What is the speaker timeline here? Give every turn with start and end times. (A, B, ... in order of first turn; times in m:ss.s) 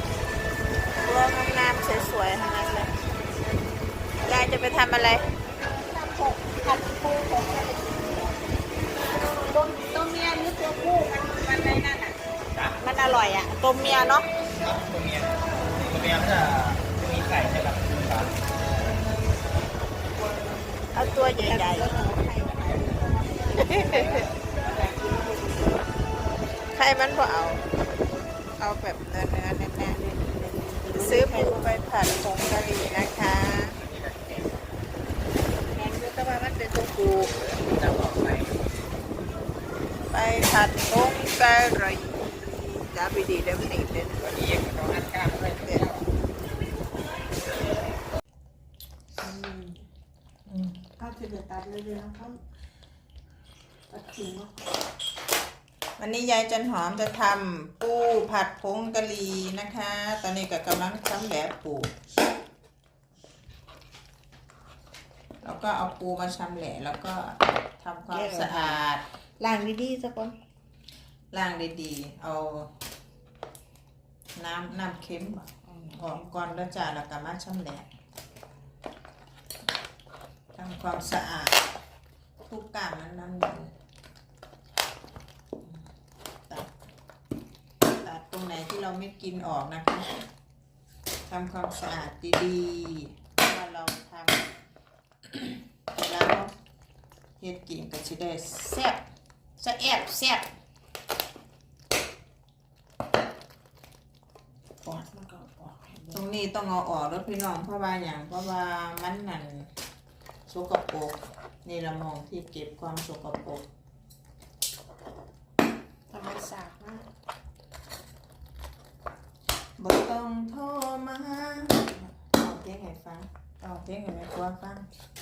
0:01.0-0:02.9 A
0:04.2-0:05.3 A
0:05.8-0:08.4 B
0:09.3-0:12.1 B
0:12.5-0:12.9 C
0:12.9-0:14.2 A
0:14.6-0:18.4 C
0:20.9-0:21.9 A
0:21.3-0:25.9 B
0:22.4-0:22.9 C
0:23.6-0:24.3 A
0:26.7-0:27.6 A
0:28.6-0:30.0 A
0:29.8-0:31.9 B
0:30.9-0:33.8 A
0:33.8-0:34.5 C
0:36.1-0:37.2 A
0:37.2-0:38.6 C
0:40.1-0:44.2 A
0:44.2-0:46.1 C
0:49.2-0:49.8 B
0:50.5-0:50.8 A
0:51.0-0:52.4 B
0:53.9-0:54.7 B
0:56.0-1:01.9 A
1:05.4-1:09.0 A
1:08.1-1:08.8 B
1:09.4-1:10.4 B
1:11.3-1:12.7 A
1:14.4-1:17.9 A
1:15.6-1:16.5 B
1:20.5-1:21.6 A
1:22.4-1:23.7 A
1:28.0-1:30.2 A
1:31.3-1:34.4 A
1:35.3-1:36.5 A
1:37.4-1:39.0 A
1:39.6-1:40.5 A
1:44.8-1:46.2 B
1:46.1-1:49.7 A
1:50.5-1:53.6 A
1:56.1-1:57.0 B
1:59.8-2:04.9 A